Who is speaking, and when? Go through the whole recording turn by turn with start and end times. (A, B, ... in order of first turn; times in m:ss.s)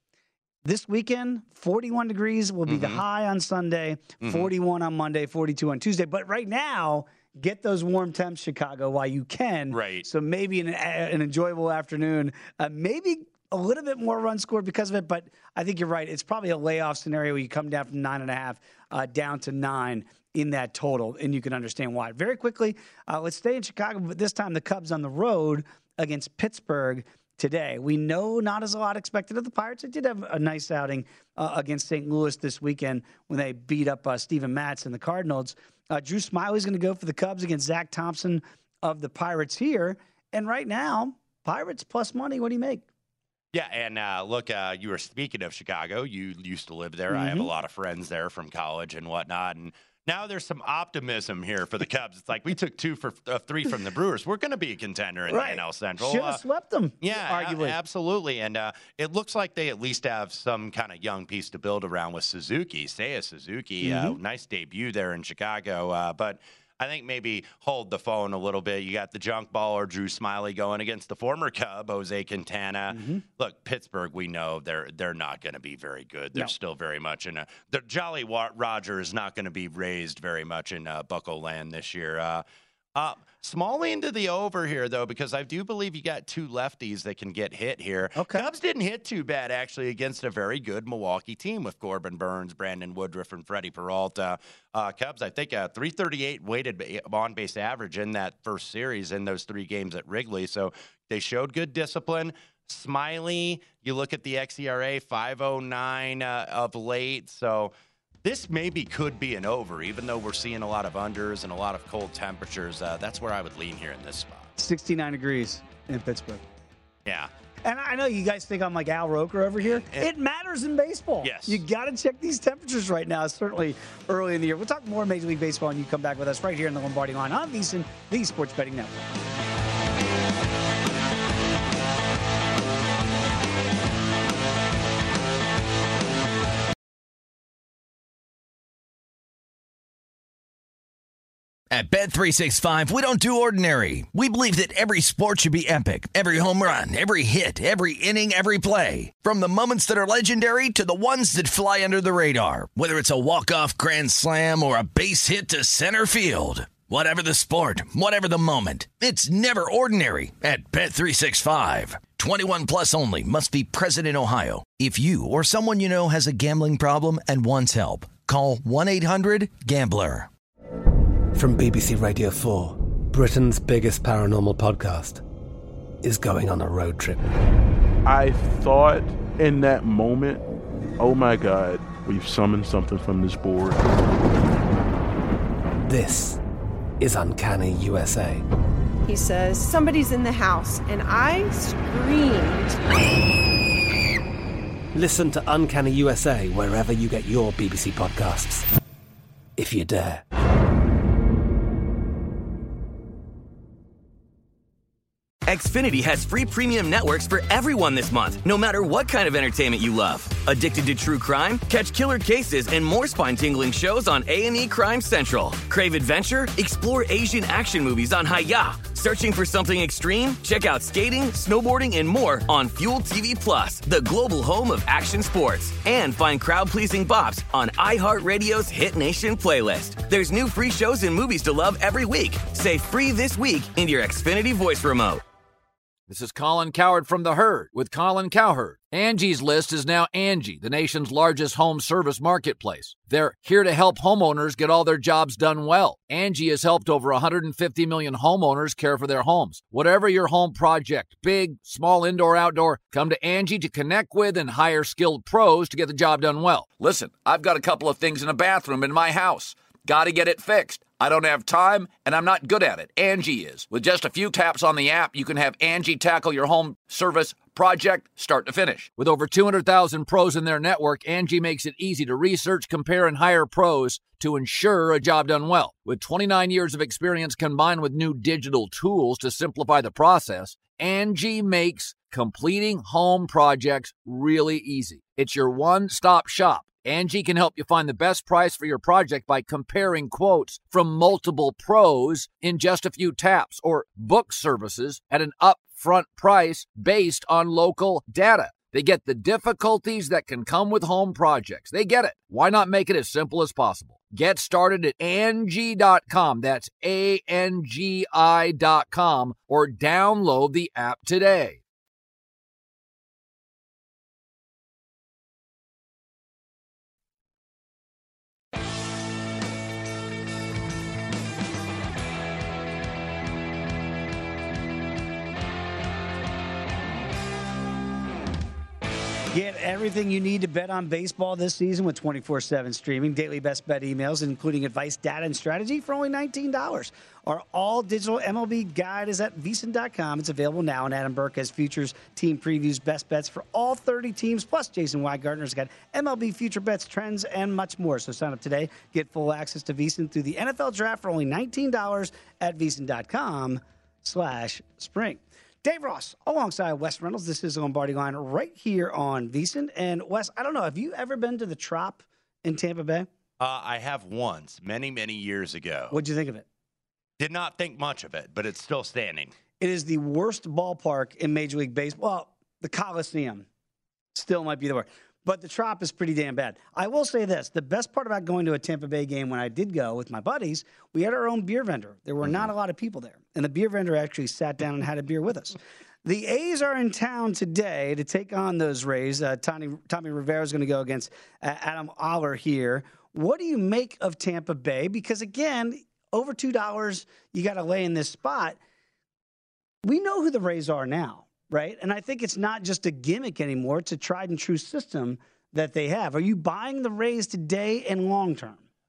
0:00.6-0:42.9 A
0:02.7-0:03.0 B
0:04.2-0:04.5 B
0:09.7-0:10.1 B
0:43.5-0:56.4 B
0:47.1-0:47.5 A
0:55.3-0:57.8 A
0:57.0-1:22.4 B
1:03.8-1:04.2 A
1:12.9-1:13.2 A
1:23.0-1:47.7 B
1:28.2-1:28.5 A
1:48.2-1:54.5 B
1:54.6-1:56.4 A
1:57.6-2:09.1 A
1:59.8-2:00.1 B
2:01.2-2:01.6 B
2:21.7-2:50.3 C
2:51.4-2:55.2 D
2:56.0-2:57.2 D
2:58.0-3:00.4 E
3:01.0-3:03.8 E
3:05.8-3:06.4 D
3:07.0-3:08.4 D
3:09.1-3:12.8 F
3:14.9-3:18.6 D
3:19.6-3:20.2 D
3:25.5-3:55.2 G
3:56.1-5:11.6 H
5:29.3-6:03.1 A
6:03.4-6:06.0 B
6:05.9-6:06.5 A
6:07.2-6:09.3 B
6:09.6-6:13.5 A
6:14.1-6:38.6 A
6:39.8-6:48.6 A